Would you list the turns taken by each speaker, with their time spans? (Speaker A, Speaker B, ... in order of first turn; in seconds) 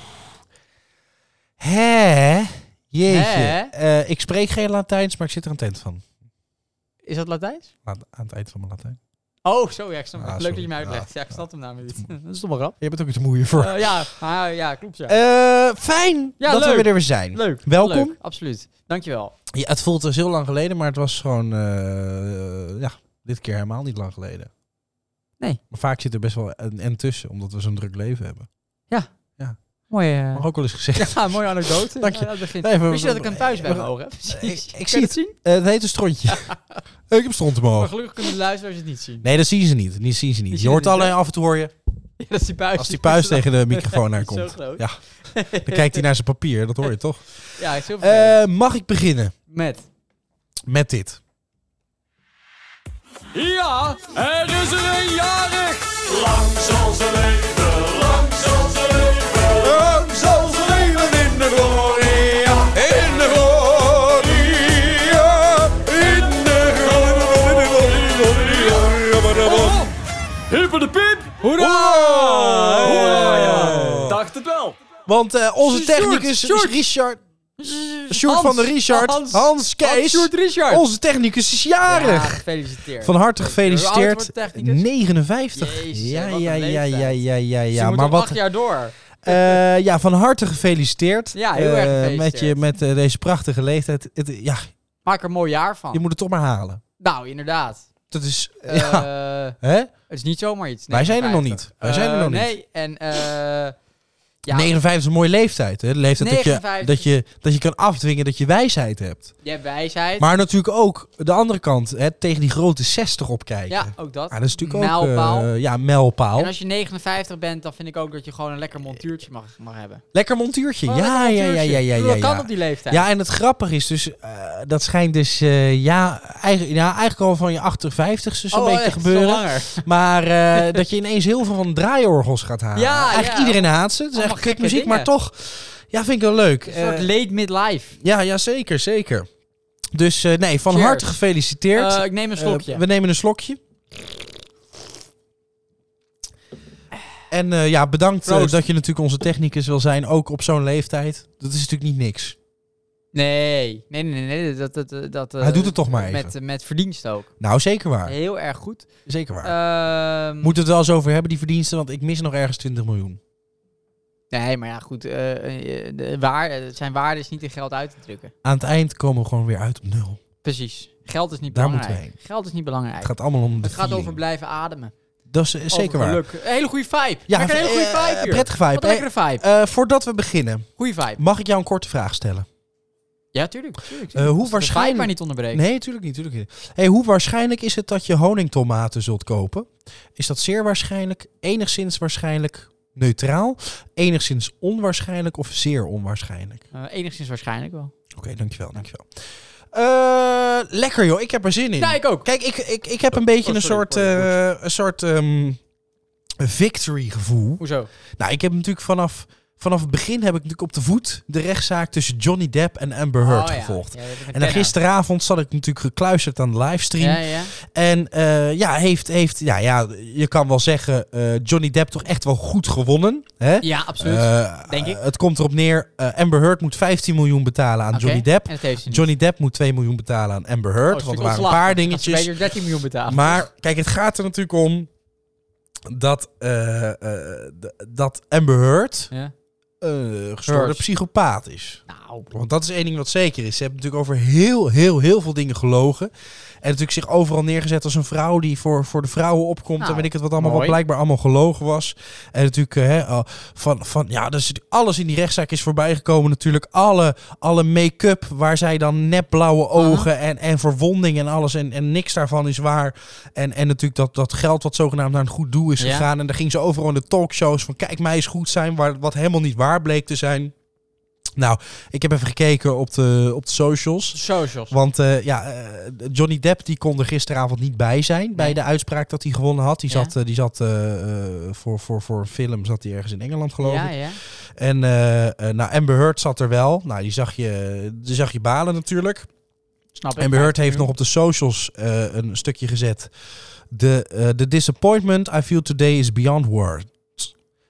Speaker A: 1.6-6.0, 7.8-9.0, 10.2-11.1, 12.8-14.0, 15.1-18.1, 19.5-24.5, 25.7-28.5, 30.3-36.5, 37.1-37.9, 39.2-41.7, 42.8-45.0, 45.5-49.3, 50.6-51.2, 69.0-69.8, 71.6-74.2, 75.1-77.2, 78.1-82.4, 83.0-88.4, 89.2-94.7, 95.9-96.8, 98.1-99.1, 99.6-99.9, 100.9-102.5, 104.5-109.3, 110.2-116.5, 120.1-137.1, 138.0-139.3, 139.9-143.6, 147.3-152.4, 155.4-156.3, 157.4-158.1, 159.1-159.5, 160.4-163.2, 168.4-170.2, 171.5-172.1, 173.0-174.2, 175.3-176.2, 177.3-182.5, 184.1-196.6, 198.1-205.6, 206.4-207.6, 208.2-232.3, 233.1-234.9, 235.9-239.1, 239.8-246.1, 246.6-270.5, 271.4-274.2, 274.7-289.3, 290.2-293.1, 293.7-297.3
Speaker B: 3.1-3.7, 7.0-7.7, 9.4-12.8, 13.5-15.2, 16.4-19.3, 29.9-30.4, 30.9-35.3, 36.3-36.8, 37.7-39.3, 40.5-41.1, 42.2-46.0, 47.6-48.4, 49.5-49.8, 69.4-69.9, 71.4-74.2, 75.6-76.8, 77.6-80.8, 81.9-84.8, 85.5-89.6, 91.3-92.6, 95.0-96.0, 97.0-97.9, 98.6-99.5, 100.1-103.7, 104.4-104.7, 106.2-107.1, 109.4-110.3, 113.7-115.5, 116.3-120.0, 120.8-123.1, 128.5-129.8, 130.5-130.8, 132.7-135.1, 136.7-138.0, 140.7-141.2, 141.7-142.8, 148.2-148.6, 153.1-157.3, 158.1-158.9, 159.4-160.5, 164.3-168.3, 170.4-174.9, 175.7-179.4, 180.8-181.2, 183.3-185.6, 196.7-197.9, 201.8-202.3, 203.2-204.4, 207.6-207.9, 213.2-214.7, 217.0-217.5, 223.6-225.0, 227.9-229.1, 230.9-233.4, 240.5-240.8, 241.9-242.3, 249.8-250.8, 259.8-260.1, 265.8-266.1, 274.1-274.8, 283.6-284.2, 289.9-290.9
Speaker C: 53.3-69.7, 70.5-71.3, 72.0-72.2, 73.2-74.7